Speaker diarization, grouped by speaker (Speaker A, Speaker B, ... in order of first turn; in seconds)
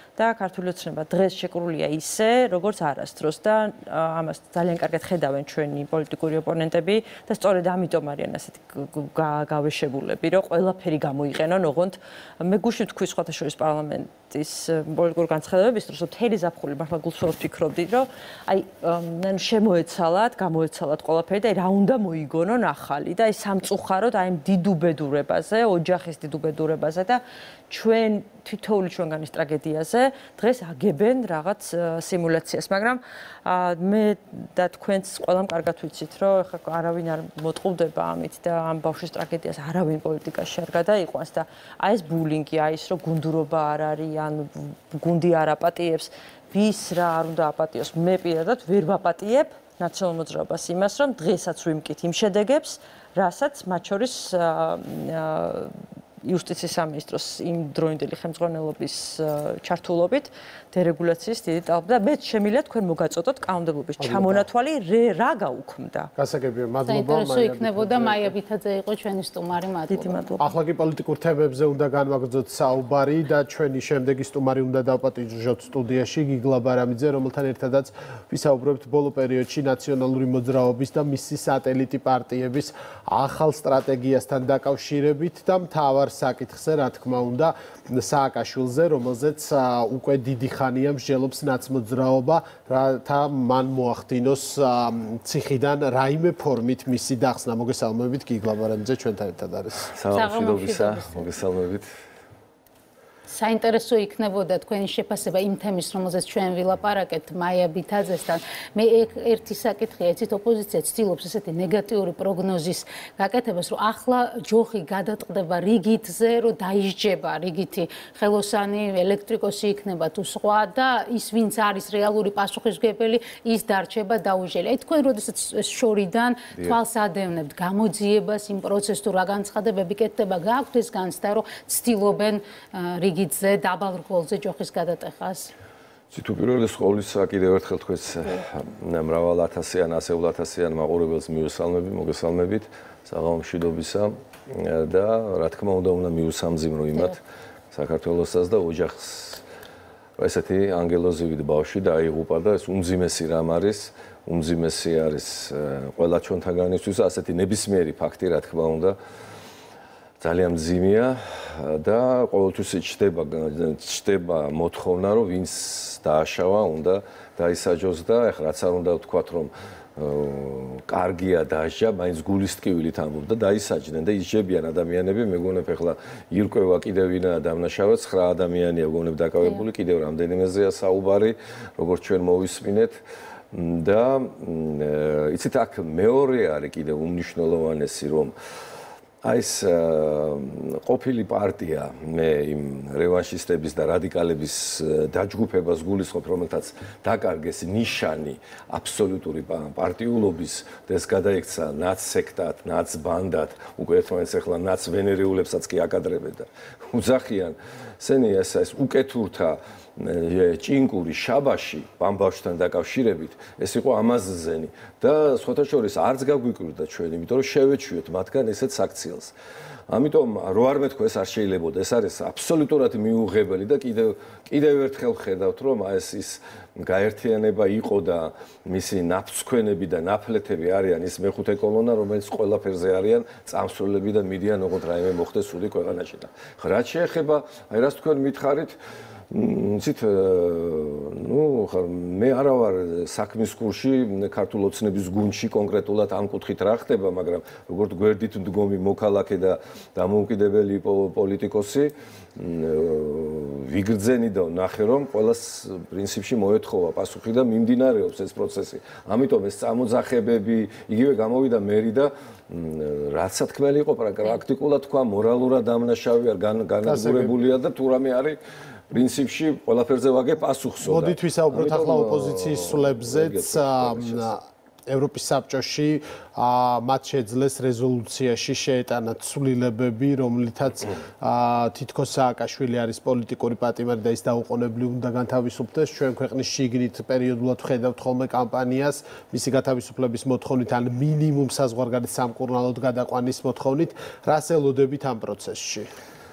Speaker A: 0.2-66.1, 69.9-70.5
Speaker B: 64.0-64.5, 66.2-68.3, 70.4-99.9, 266.8-267.3, 270.8-295.9
Speaker C: 66.9-70.3, 100.1-101.3, 103.3-135.5
Speaker D: 99.9-101.9, 136.1-147.2, 147.7-149.4, 150.2-159.0, 160.2-183.0, 183.5-188.3, 189.2-219.3, 219.9-238.8, 239.3-268.4, 268.9-274.4